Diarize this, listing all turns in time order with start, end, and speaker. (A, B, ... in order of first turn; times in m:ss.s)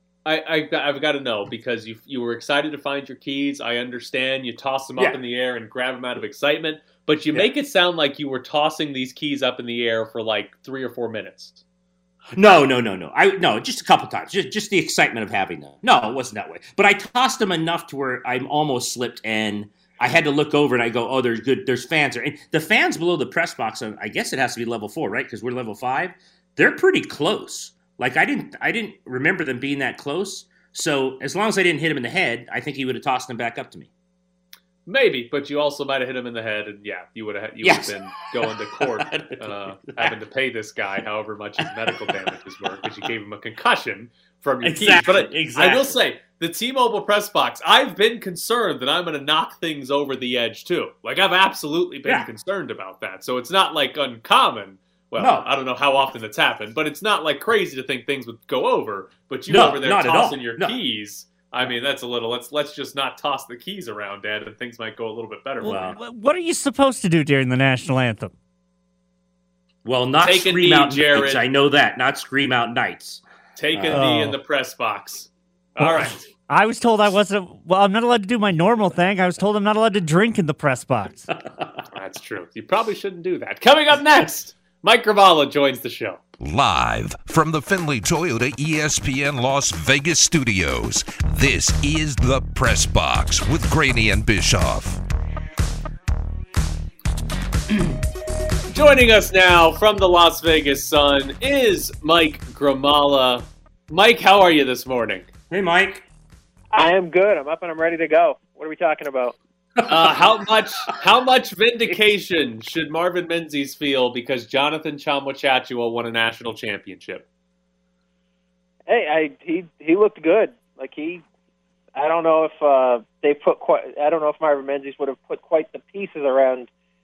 0:00.2-0:11.6 A
0:12.3-0:33.9 B
0:34.8-1:05.9 A
0:37.6-0:40.1 B
0:41.9-0:42.3 B
0:44.6-0:46.0 B
0:55.2-0:55.5 B
0:59.5-1:00.8 B
1:05.6-1:08.3 C
1:05.7-1:06.0 B
1:09.8-1:13.2 B
1:10.2-1:11.4 A
1:13.6-1:16.2 A
1:13.7-1:14.0 B
1:13.9-1:14.4 C
1:16.0-1:21.3 C
1:21.9-1:26.2 A
1:26.4-1:35.0 D
1:38.7-1:45.3 A
1:45.5-1:46.0 B
1:46.7-1:49.4 E
1:49.8-1:57.2 A
1:58.9-2:01.2 E
2:01.9-2:06.7 E